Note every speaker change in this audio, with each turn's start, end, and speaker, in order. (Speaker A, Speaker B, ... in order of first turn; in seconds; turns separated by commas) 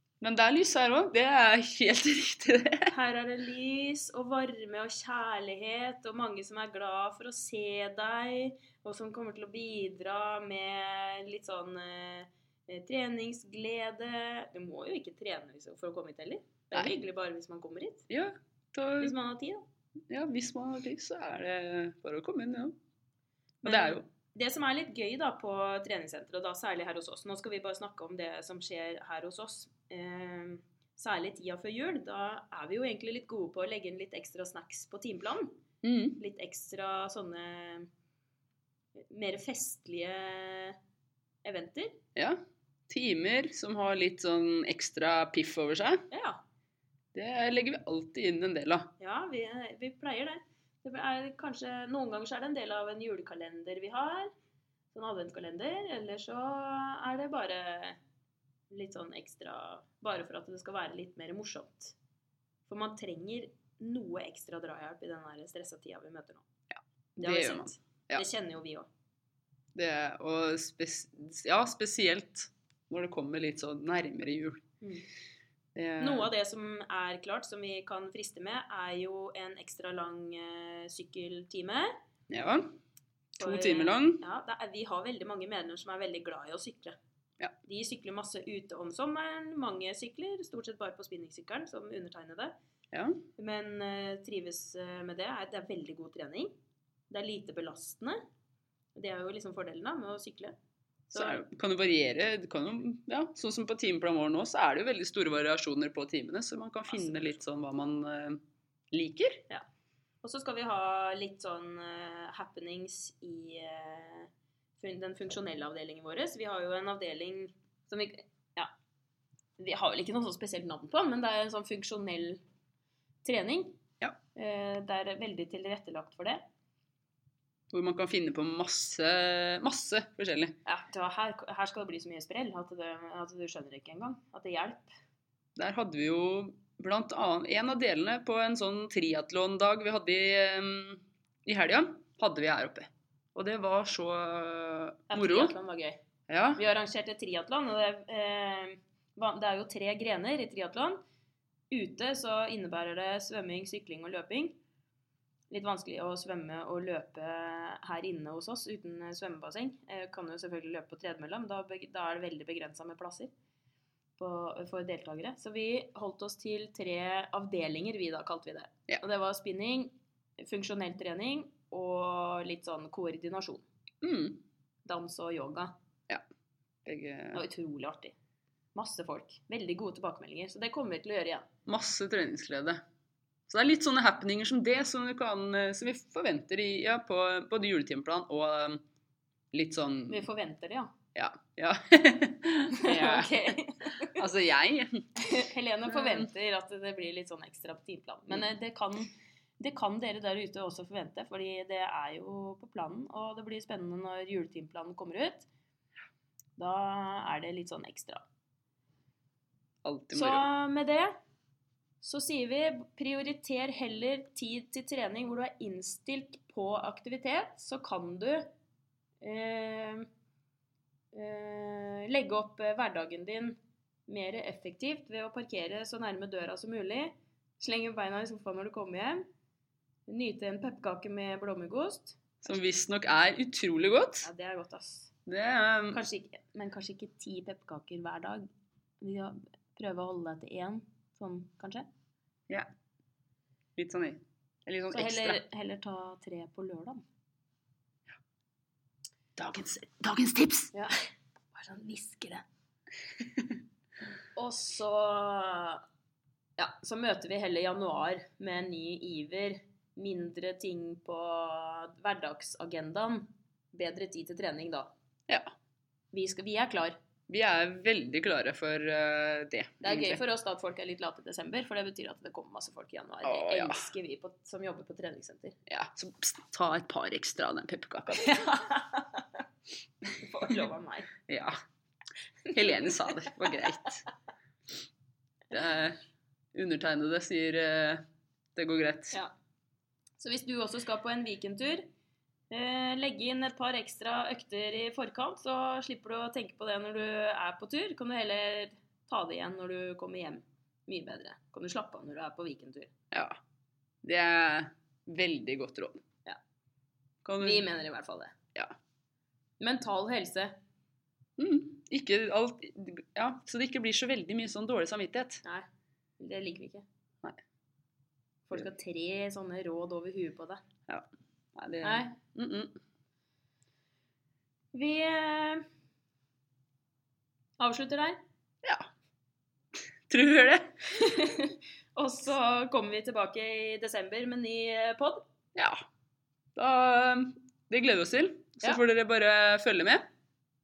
Speaker A: 0.2-2.9, Speaker B: 2.9-18.1, Speaker A: 16.7-17.0, Speaker A: 18.1-19.1, Speaker B: 19.0-19.6, Speaker A: 20.1-22.8, Speaker A: 23.6-24.0, Speaker B: 23.6-35.5, Speaker A: 35.8-36.2, Speaker B: 36.2-37.9, Speaker B: 39.0-40.8, Speaker B: 41.4-42.0, Speaker A: 42.1-46.0, Speaker B: 46.1-46.4, Speaker A: 47.1-48.9, Speaker B: 49.0-54.3, Speaker B: 54.9-58.0, Speaker B: 58.7-62.0, Speaker B: 62.7-66.5, Speaker A: 66.7-68.2, Speaker B: 67.2-68.9, Speaker A: 69.7-74.6, Speaker B: 74.8-75.0, Speaker A: 75.8-76.3, Speaker B: 76.0-82.0, Speaker A: 82.3-82.7, Speaker A: 83.4-84.2, Speaker B: 83.4-87.0, Speaker B: 87.6-92.5, Speaker A: 92.9-93.2, Speaker B: 93.4-96.5, Speaker B: 97.1-98.2, Speaker B: 99.0-100.5, Speaker B: 101.1-101.4, Speaker A: 101.1-108.4, Speaker B: 106.9-107.4, Speaker A: 108.9-109.4, Speaker B: 110.2-118.7, Speaker B: 119.6-122.4, Speaker B: 123.2-123.8, Speaker B: 124.3-126.4, Speaker A: 127.7-130.6, Speaker B: 130.6-134.9, Speaker A: 135.6-145.5, Speaker B: 145.1-146.0, Speaker A: 146.3-146.6, Speaker B: 146.6-151.0, Speaker B: 151.7-154.6, Speaker B: 155.5-163.3, Speaker B: 164.2-173.7, Speaker A: 174.0-174.4, Speaker B: 174.8-175.7, Speaker A: 176.8-177.4, Speaker B: 177.3-178.1, Speaker B: 178.7-181.5, Speaker A: 181.7-182.8, Speaker A: 183.5-188.8, Speaker A: 189.5-190.2, Speaker B: 190.1-190.9, Speaker A: 191.1-193.3, Speaker B: 192.8-194.2, Speaker A: 194.2-195.1, Speaker B: 195.2-205.5, Speaker A: 195.9-196.2, Speaker B: 206.6-208.2, Speaker A: 209.8-210.5, Speaker B: 210.1-211.2, Speaker B: 212.0-218.4, Speaker B: 219.2-220.1, Speaker B: 221.1-229.2, Speaker B: 230.1-232.5, Speaker A: 232.4-234.3, Speaker B: 234.2-235.1, Speaker A: 235.3-236.0, Speaker B: 235.9-238.4, Speaker B: 239.0-241.9, Speaker A: 243.8-245.4, Speaker B: 244.9-247.0, Speaker A: 249.3-250.7, Speaker B: 251.5-252.4, Speaker B: 254.3-255.8, Speaker B: 256.6-264.9, Speaker B: 266.1-267.0, Speaker A: 267.3-270.2, Speaker B: 269.8-275.5, Speaker A: 273.2-273.8, Speaker A: 275.7-278.5, Speaker B: 278.1-279.4, Speaker B: 280.1-281.1, Speaker A: 281.3-281.5, Speaker B: 282.5-283.6, Speaker A: 282.5-284.0, Speaker A: 285.5-286.0, Speaker A: 286.5-288.0, Speaker A: 288.5-289.2, Speaker B: 290.2-291.9, Speaker B: 292.5-302.9, Speaker A: 303.1-303.4, Speaker A: 304.0-306.0, Speaker A: 307.2-307.6, Speaker B: 307.4-308.3, Speaker B: 309.6-310.5, Speaker A: 311.4-315.4, Speaker B: 316.2-316.9, Speaker B: 318.5-320.6, Speaker A: 320.9-322.8, Speaker B: 321.8-322.1, Speaker B: 324.7-325.6, Speaker B: 327.6-328.2, Speaker A: 330.1-330.7, Speaker B: 330.9-335.2, Speaker A: 335.5-335.8, Speaker A: 336.6-340.0